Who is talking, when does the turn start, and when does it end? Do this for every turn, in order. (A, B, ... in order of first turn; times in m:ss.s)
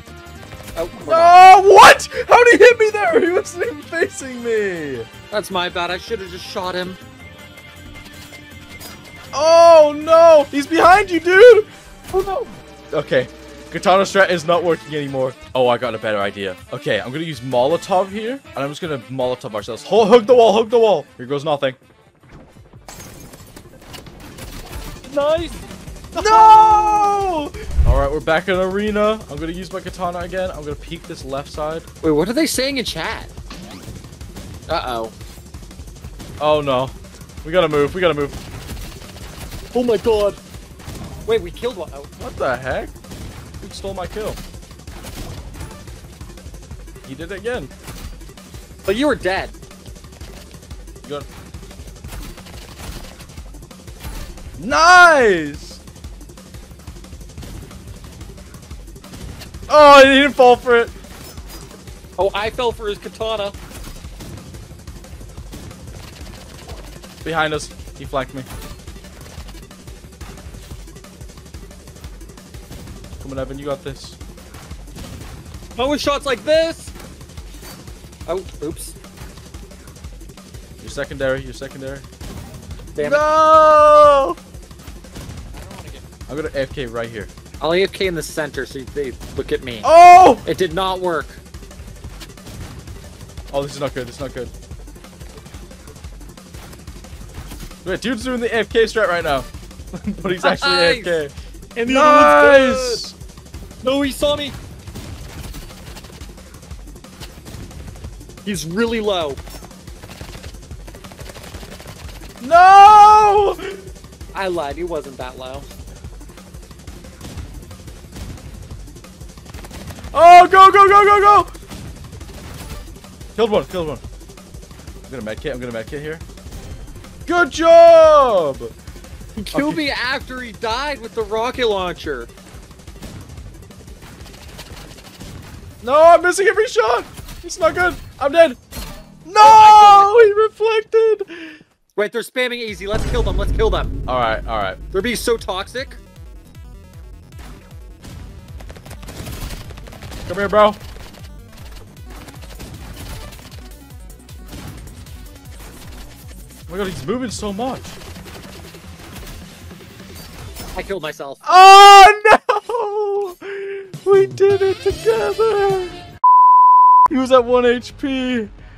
0:00.7-0:01.3 A
0:01.1-0:05.1 B
0:05.3-0:07.0 A
0:09.3-0:21.8 B
0:25.0-0:27.2 A
0:26.1-0:31.9 B
0:32.0-0:33.3 A
0:34.7-0:35.1 A
0:36.4-0:38.4 B
0:39.7-0:40.4 A
0:41.2-0:42.1 A
0:42.2-0:42.9 B
0:43.6-0:44.4 B
0:47.0-0:47.7 B
0:48.8-0:49.5 A
0:54.6-0:55.8 B
0:59.7-1:00.9 B
1:02.2-1:03.6 A
1:07.2-1:08.5 B
1:13.2-1:14.2 B
1:15.8-1:16.9 A
1:18.3-1:19.0 A
1:20.8-1:22.0 B
1:22.9-1:23.2 A
1:23.0-1:24.4 B
1:25.5-1:26.1 A
1:26.3-1:27.3 B
1:27.6-1:29.9 A
1:29.8-1:30.4 B
1:30.4-1:31.4 A
1:33.5-1:34.5 B
1:37.8-1:41.3 B
1:40.3-1:41.2 A
1:41.8-1:43.0 A
1:41.9-1:43.2 B
1:43.8-1:44.6 A
1:48.4-1:49.4 A
1:52.4-1:53.8 B
1:54.3-1:55.7 A
2:00.1-2:01.5 B
2:03.4-2:04.0 B
2:05.1-2:06.2 B
2:07.2-2:08.7 B
2:09.4-2:12.3 A
2:09.5-2:09.8 B
2:15.8-2:18.6 B
2:19.2-2:21.6 B
2:19.4-2:20.3 A
2:22.0-2:24.0 A
2:24.1-2:24.8 B
2:24.9-2:26.0 A
2:30.2-2:30.8 B
2:36.7-2:38.0 B
2:40.7-2:41.4 A
2:41.4-2:46.0 B
2:47.1-2:48.5 B